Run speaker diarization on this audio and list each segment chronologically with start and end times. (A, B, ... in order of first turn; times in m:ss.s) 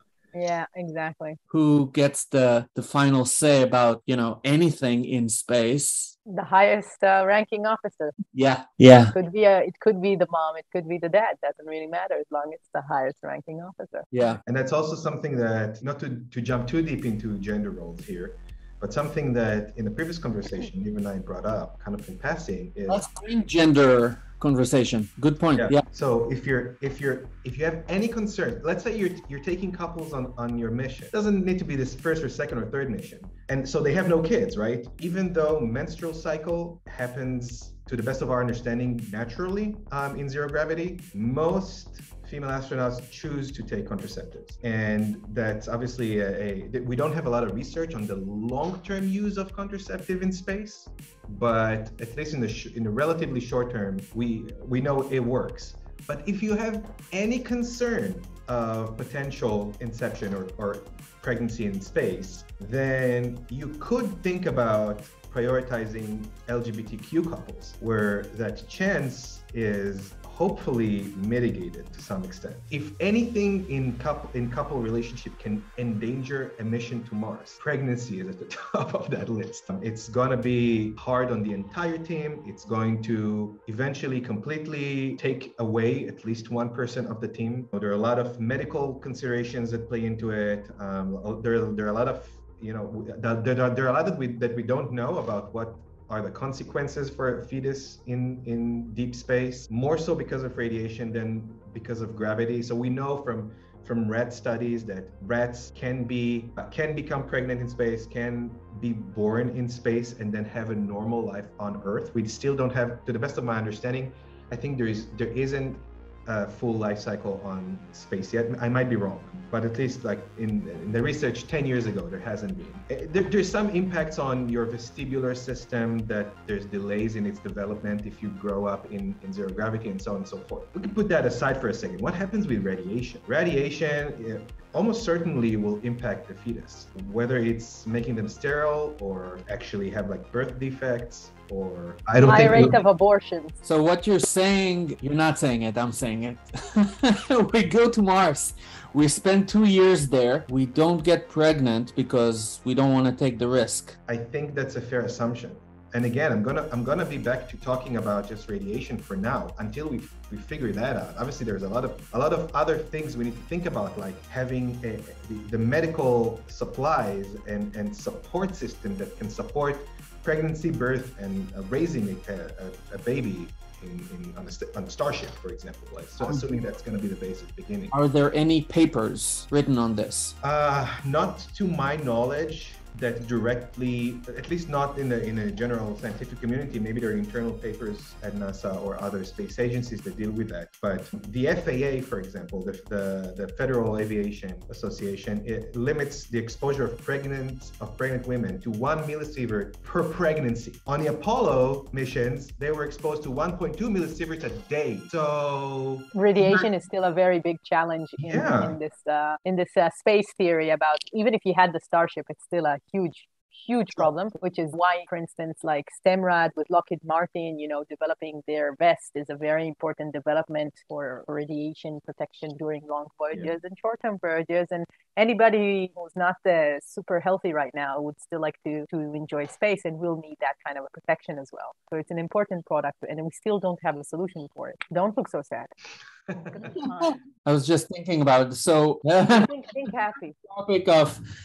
0:00.3-0:01.4 A
0:01.5-0:06.1 B
0:06.3-0:08.2 A
0:08.3-0:09.1 B
0:09.1-0:14.1 A
0:14.1-0:14.4 B
0:14.4-0:23.0 C
0:22.9-0:25.8 B
0:25.6-2:22.8 C
2:22.2-2:23.6 A
2:23.6-2:34.0 B
2:34.1-2:57.9 C
2:56.2-2:56.5 B
2:57.9-3:00.3 B
3:00.4-3:26.6 C
3:26.1-3:55.7 A
3:28.3-3:28.8 C
3:56.5-3:57.2 A
3:56.7-3:59.5 B
3:59.4-4:00.4 A
4:00.5-4:01.2 B